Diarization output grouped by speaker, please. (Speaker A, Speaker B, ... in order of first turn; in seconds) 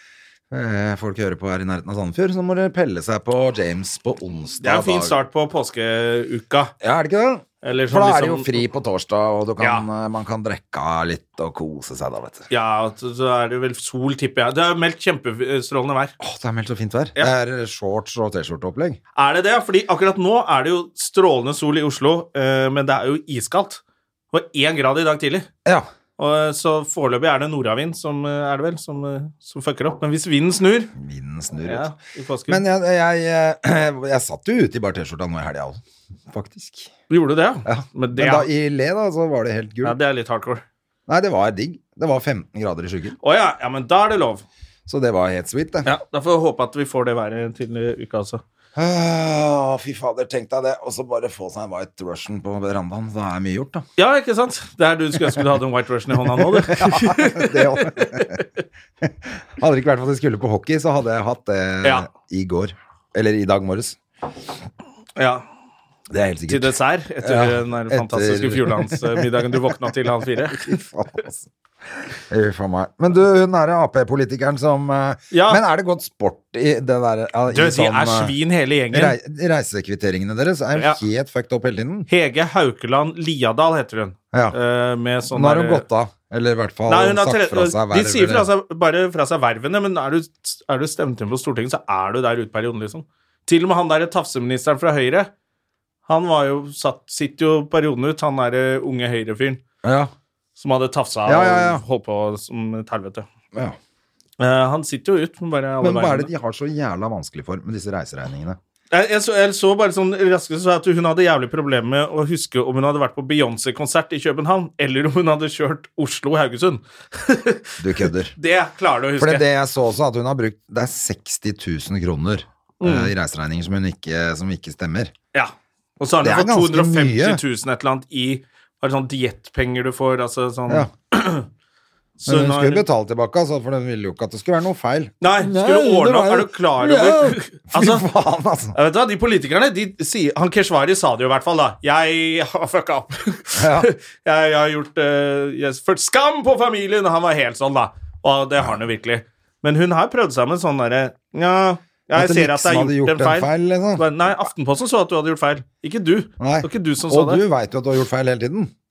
Speaker A: 0.5-5.2, 6.8-12.5, 16.2-19.0, 31.0-31.9, 32.5-36.9, 37.6-40.0, 41.1-43.2, 44.9-45.9, 48.8-53.8, 56.3-58.4, 59.0-64.0, 66.1-69.5, 70.5-71.5, 72.0-78.3, 78.9-82.1, 84.3-84.6, 85.3-88.5, 99.8-100.1, 101.3-101.8, 105.8-108.6, 117.8-118.3, 119.2-125.1, 126.2-127.4, 132.3-138.8, 143.6-143.9, 152.1-154.1, 156.4-158.7
Speaker B: 4.6-6.7, 7.6-8.7, 9.6-9.8, 12.5-16.1, 19.2-23.8, 24.3-25.5, 26.2-30.9, 31.7-32.6, 37.1-38.5, 39.8-40.6, 43.2-44.5, 45.8-48.4, 54.0-58.6, 65.2-65.4, 66.5-70.8, 75.3-75.6, 77.5-79.2, 80.8-81.0, 82.1-85.9, 86.9-95.3, 96.1-99.6, 100.6-103.3, 104.4-106.3, 108.9-119.5, 122.8-123.1, 125.3-131.5, 132.2-132.8, 135.2-138.1, 138.7-157.4